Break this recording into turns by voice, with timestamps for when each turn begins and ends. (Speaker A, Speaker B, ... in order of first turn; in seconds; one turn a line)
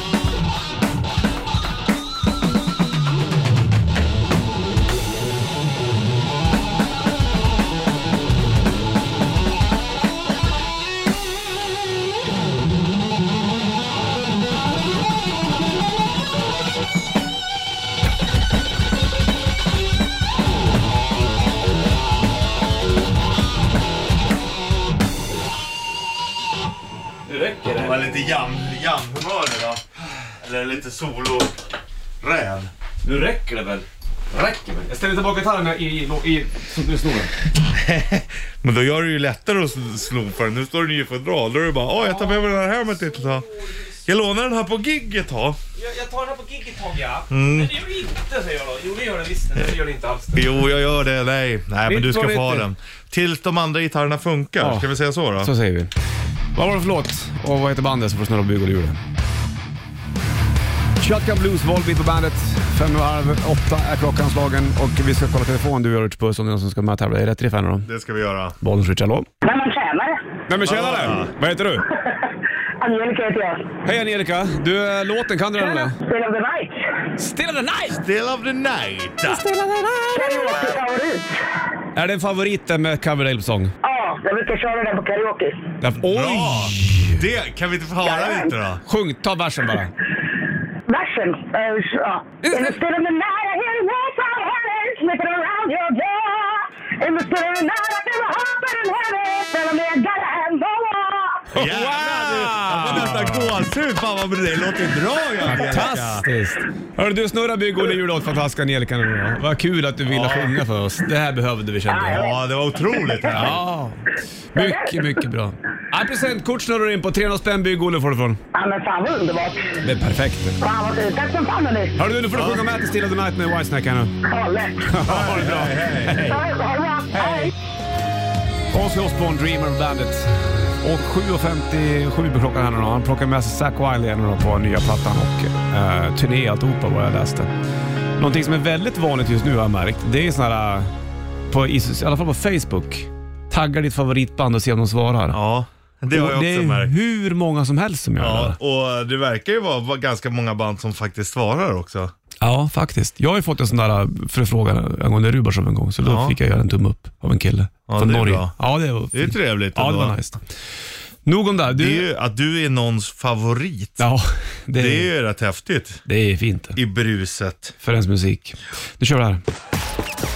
Speaker A: 27.3-28.1
Speaker B: 27.7-31.6
Speaker B: 32.2-32.7
Speaker A: 33.0-37.3
Speaker B: 37.6-43.5
Speaker A: 43.5-43.9
Speaker B: 44.0-45.6
Speaker A: 45.8-50.5
Speaker B: 47.3-47.7
Speaker B: 50.3-55.5
Speaker A: 51.9-52.7
Speaker A: 54.6-55.9
Speaker A: 56.5-59.0
Speaker A: 61.0-67.9
Speaker B: 67.8-68.6
Speaker A: 68.6-69.3
Speaker C: 69.4-70.3
Speaker A: 70.5-71.9
Speaker B: 70.6-71.3
Speaker C: 71.9-73.7
Speaker A: 73.8-76.0
Speaker C: 75.6-76.8
Speaker A: 77.2-78.0
Speaker B: 77.9-79.4
Speaker A: 79.2-80.8
Speaker C: 80.1-81.4
Speaker A: 82.0-83.7
Speaker C: 83.8-85.7
Speaker A: 85.8-87.2
Speaker B: 86.0-88.8
Speaker C: 88.0-88.5
Speaker A: 88.8-89.9
Speaker C: 90.9-101.5
Speaker A: 92.4-92.8
Speaker A: 101.5-103.6
Speaker B: 101.5-106.3
Speaker A: 105.5-112.3
Speaker B: 110.1-110.6
Speaker C: 111.9-112.3
Speaker B: 112.1-113.6
Speaker C: 112.9-113.2
Speaker A: 113.3-118.4
Speaker C: 114.6-115.0
Speaker C: 118.5-119.8
Speaker A: 119.8-120.6
Speaker C: 120.6-122.0
Speaker A: 122.0-124.2
Speaker B: 122.3-122.6
Speaker C: 124.3-124.9
Speaker A: 124.8-126.4
Speaker B: 125.0-126.4
Speaker C: 126.2-127.5
Speaker B: 127.2-127.5
Speaker A: 128.7-137.5
Speaker A: 138.2-140.9
Speaker A: 141.5-145.4
Speaker B: 145.3-146.9
Speaker A: 146.1-148.6
Speaker B: 148.2-152.1
Speaker A: 152.4-160.4
Speaker B: 156.0-156.4
Speaker B: 157.9-158.6
Speaker B: 159.1-160.2
Speaker A: 161.3-162.1
Speaker B: 161.7-164.1
Speaker A: 164.0-165.1
Speaker B: 164.8-166.0
Speaker A: 166.1-166.8
Speaker B: 166.8-167.8
Speaker A: 167.8-169.4